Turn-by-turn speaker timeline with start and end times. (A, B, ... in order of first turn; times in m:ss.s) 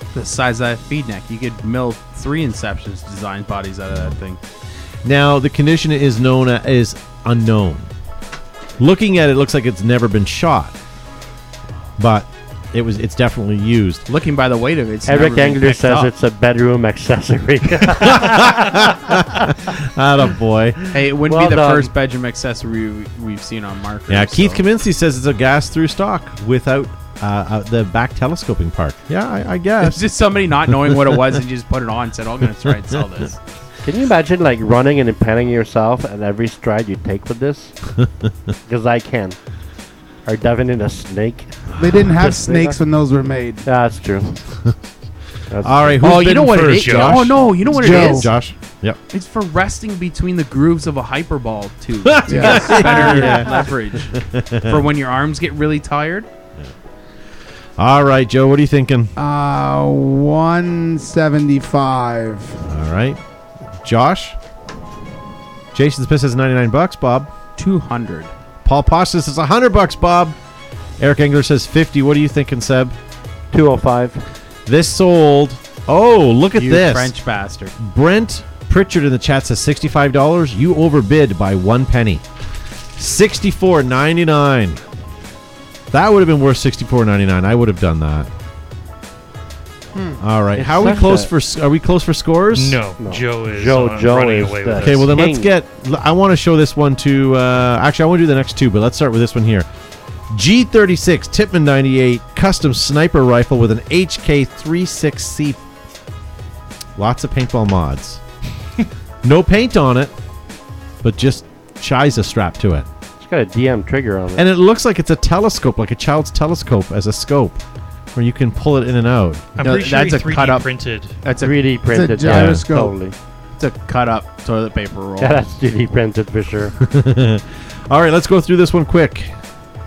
0:00.1-0:04.4 A
0:05.0-0:07.9 B
0:08.8-0:10.8 B
0:12.0-0:14.0 B
0:14.1-0:16.1 A
0:15.0-0:19.2 C
0:18.0-0:20.8 B
0:20.9-0:24.6 A
0:21.3-0:21.9 C
0:24.1-0:30.0 B
0:29.8-0:33.4 A
0:33.8-0:37.8 C
0:38.0-0:38.3 B
0:38.7-0:39.4 C
0:40.2-0:42.8 C
0:41.8-0:43.6 D
0:43.6-0:44.4 C
0:45.5-0:46.0 C
0:45.6-0:49.0 B
0:46.0-0:48.3 A
0:46.7-0:47.4 E
0:47.7-0:48.3 D
0:49.1-0:56.3 A
0:52.0-0:54.8 B
0:52.3-0:52.7 D
0:52.7-0:53.4 C
0:57.8-0:59.1 B
0:59.2-1:02.6 D
1:02.6-1:03.2 B
1:03.8-1:04.4 B
1:05.7-1:07.3 B
1:07.6-1:08.3 A
1:08.6-1:10.4 B
1:11.0-1:13.0 B
1:13.5-1:14.2 C
1:14.6-1:17.1 B
1:16.6-1:17.7 A
1:17.8-1:22.2 B
1:23.0-1:24.8 B
1:25.9-1:28.3 B
1:30.2-1:32.8 B
1:30.5-1:31.3 C
1:32.5-1:35.0 E
1:33.0-1:35.5 C
1:34.8-1:39.7 B
1:40.3-1:45.6 B
1:47.0-1:48.2 B
1:49.2-1:50.1 B
1:51.0-1:52.9 B
1:53.2-1:54.4 C
1:54.4-1:57.6 B
1:58.1-1:59.4 B
1:59.6-2:01.2 E
1:59.6-2:00.7 A
2:01.2-2:01.6 A
2:01.4-2:03.2 C
2:01.9-2:02.9 D
2:02.2-2:02.6 B
2:03.6-2:05.5 A
2:05.2-2:06.8 C
2:06.8-2:09.3 B